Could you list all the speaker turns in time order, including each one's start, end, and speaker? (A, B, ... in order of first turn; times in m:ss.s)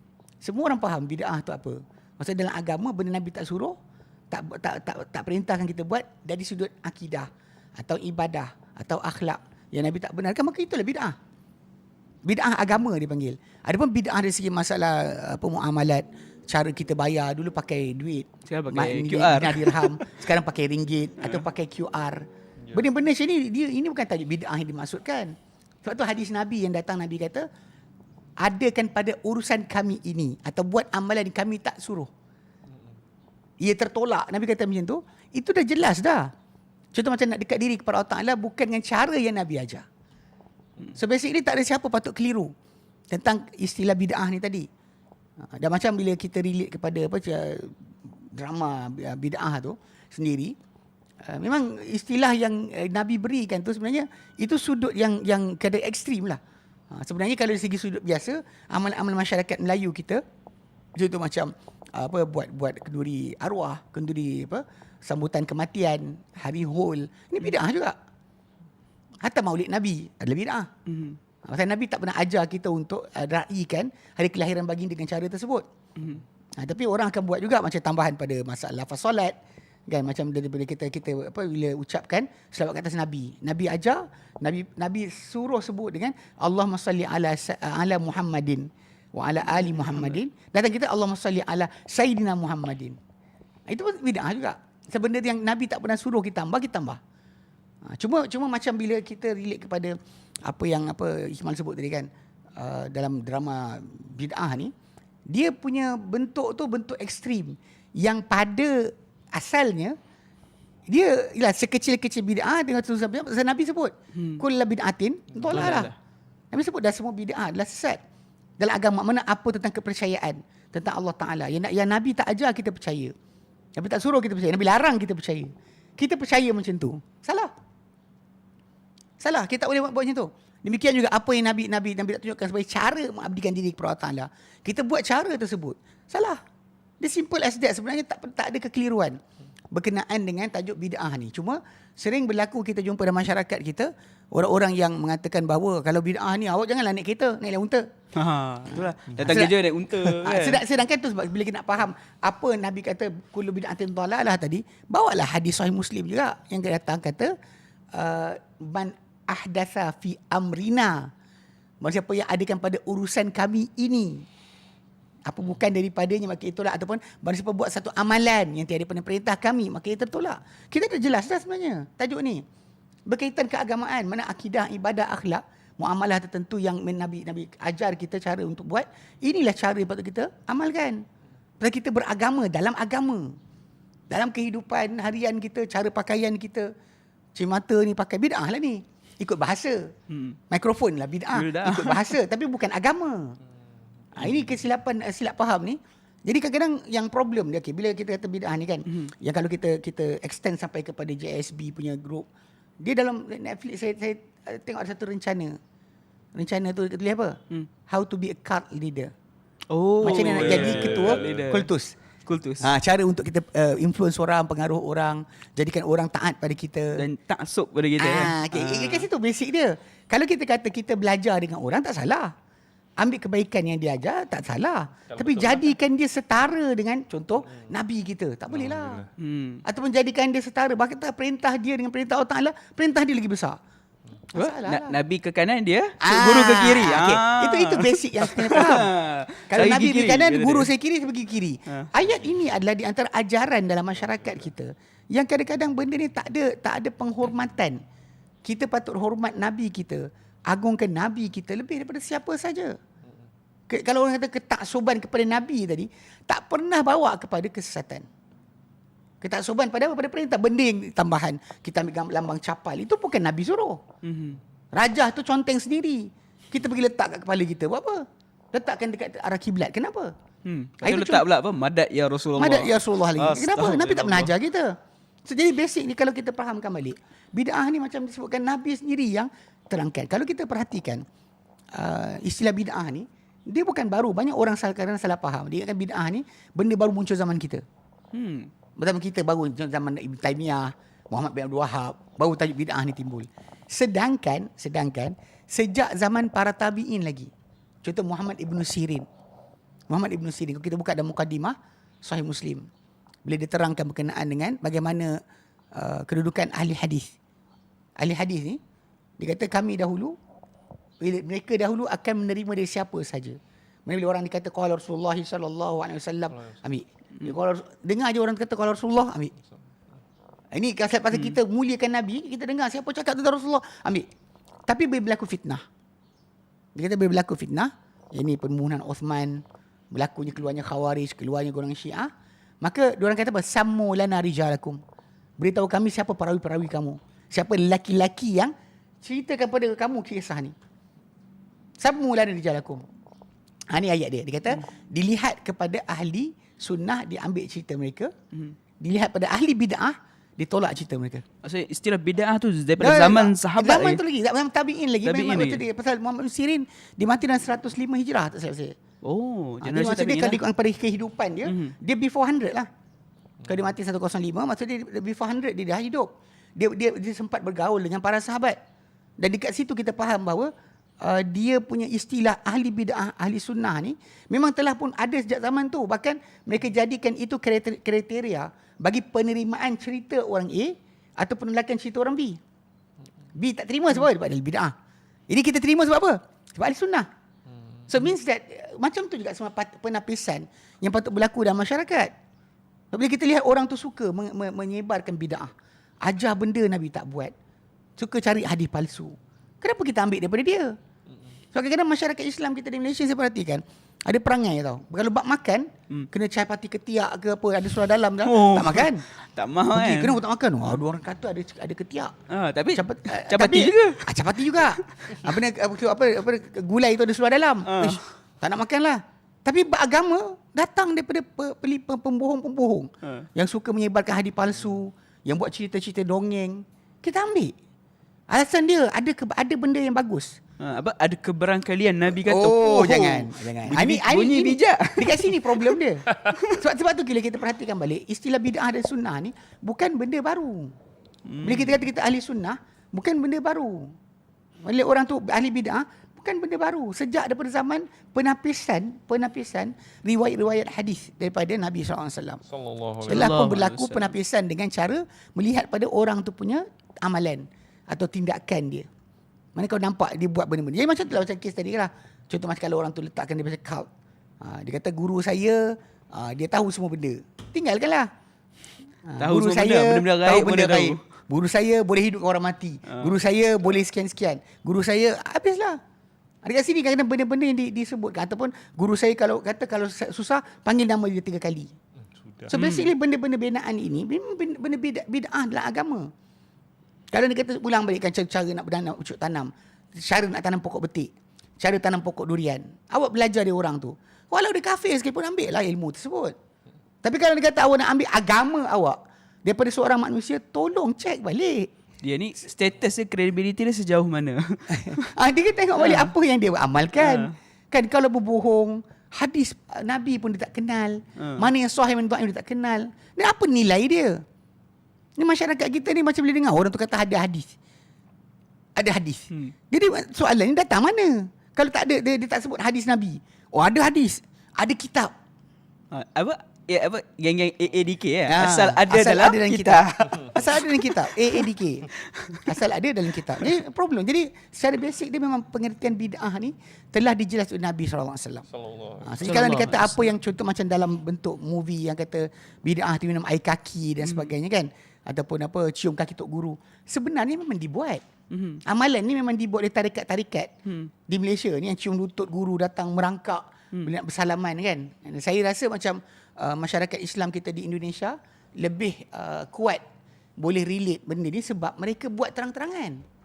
0:00.4-0:03.8 A
0:04.3-0:11.2 A
0:12.2-0:27.5 A
0:18.5-0:20.1 B
0:28.4-0:32.1 A
0:33.6-0:36.3 A
0:36.9-0:39.8 A
0:40.9-0:42.5 A
0:43.1-0:44.7 A
0:45.4-0:50.6 A
0:51.2-0:56.4 A
0:56.9-1:00.2 A
1:01.0-1:08.0 A
1:09.2-1:10.7 A
1:10.9-1:11.2 B
1:11.4-1:15.7 A
1:16.0-1:16.2 B
1:16.6-1:19.4 A
1:19.9-1:33.0 A
1:29.5-1:30.1 B
1:33.7-1:37.0 A
1:37.9-1:44.7 A
1:45.3-1:50.0 A
1:50.9-1:55.9 A
1:54.2-1:54.4 B
1:55.5-1:56.0 B
1:56.5-1:58.0 A
1:58.6-2:03.1 A
2:03.8-2:07.5 A
2:09.2-2:16.4 A
2:17.0-2:19.2 A
2:19.7-2:27.9 A
2:28.2-2:30.6 B
2:28.7-2:37.3 A
2:37.9-2:41.1 A
2:41.8-2:44.3 A
2:45.3-2:52.4 A
2:53.1-3:01.0 A
3:01.6-3:03.4 A
3:04.1-3:06.7 A
3:07.4-3:09.9 A
3:10.1-3:10.4 B
3:10.5-3:13.4 A
3:11.3-3:12.2 B
3:14.2-3:22.3 A
3:22.8-3:25.6 A
3:26.4-3:29.1 A
3:29.7-3:31.7 B
3:30.0-3:32.0 A
3:30.1-3:31.4 C
3:32.2-3:32.7 B
3:32.6-3:37.0 A
3:37.0-3:39.1 B
3:38.0-3:42.3 A
3:43.0-3:49.0 A
3:45.1-3:45.7 C
3:48.5-3:49.1 C
3:49.2-3:49.6 B
3:49.6-3:53.6 A
3:54.3-3:55.0 A
3:54.4-4:00.7 B
3:56.0-3:58.9 A
3:59.5-4:07.8 A
4:08.4-4:12.8 A
4:13.7-4:18.1 A
4:19.2-4:23.8 A
4:24.0-4:24.4 B
4:24.7-4:30.1 A
4:30.4-4:34.3 B
4:30.8-4:31.2 A
4:32.4-4:41.0 A
4:41.8-4:47.6 A
4:48.1-4:48.5 B
4:48.8-4:57.3 A
4:57.8-4:59.1 A
4:59.9-5:02.7 A
5:03.2-5:05.2 A
5:05.8-5:07.1 A
5:08.0-5:08.6 A
5:09.2-5:10.2 A
5:11.0-5:19.3 A
5:20.5-5:24.1 A
5:24.7-5:25.6 A
5:26.8-5:32.1 A
5:32.6-5:34.8 A
5:35.4-5:40.6 A
5:41.8-5:42.8 A
5:43.7-5:48.1 A
5:48.8-5:51.2 A
5:51.4-5:54.0 B
5:52.8-5:58.8 A
5:55.0-5:55.6 B
5:59.0-6:00.4 B
5:59.6-6:02.7 A
6:01.5-6:01.7 B
6:03.5-6:08.6 A
6:09.2-6:22.4 A
6:23.4-6:24.7 A
6:25.3-6:27.1 A
6:27.5-6:27.9 C
6:27.9-6:32.1 A
6:32.9-6:35.5 A
6:36.0-6:37.3 A
6:38.0-6:40.8 A
6:41.5-6:49.0 A
6:48.2-6:50.2 B
6:49.7-6:52.1 A
6:52.3-6:54.2 B
6:52.7-7:07.6 A
6:54.9-6:55.3 B
6:57.7-6:58.0 B
7:08.3-7:10.4 A
7:10.6-7:16.6 B
7:12.2-7:20.8 A
7:21.3-7:21.8 B
7:21.4-7:24.0 A
7:24.6-7:32.4 A
7:32.5-7:33.5 C
7:33.1-7:38.9 A
7:33.1-7:34.1 B
7:39.6-7:43.9 A
7:44.4-7:48.1 A
7:49.1-7:55.8 A
7:49.2-7:51.0 B
7:52.9-7:53.1 B
7:56.4-8:01.8 A
8:02.0-8:02.5 C
8:02.5-8:06.1 A
8:02.5-8:02.9 B
8:07.1-8:16.4 A
8:17.0-8:21.7 A
8:22.0-8:25.1 B
8:24.7-8:34.2 A
8:25.8-8:26.1 B
8:27.0-8:27.3 B
8:31.2-8:31.5 B
8:35.2-8:37.6 A
8:38.8-8:45.1 A
8:45.9-8:51.5 B
8:48.3-8:58.5 A
8:52.0-8:52.5 B
8:58.5-8:59.4 C
8:59.0-9:08.0 A
8:59.2-9:00.1 B
9:04.0-9:04.3 B
9:08.3-9:08.6 B
9:08.6-9:10.5 A
9:10.7-9:10.9 B
9:11.1-9:19.8 A
9:20.4-9:23.0 A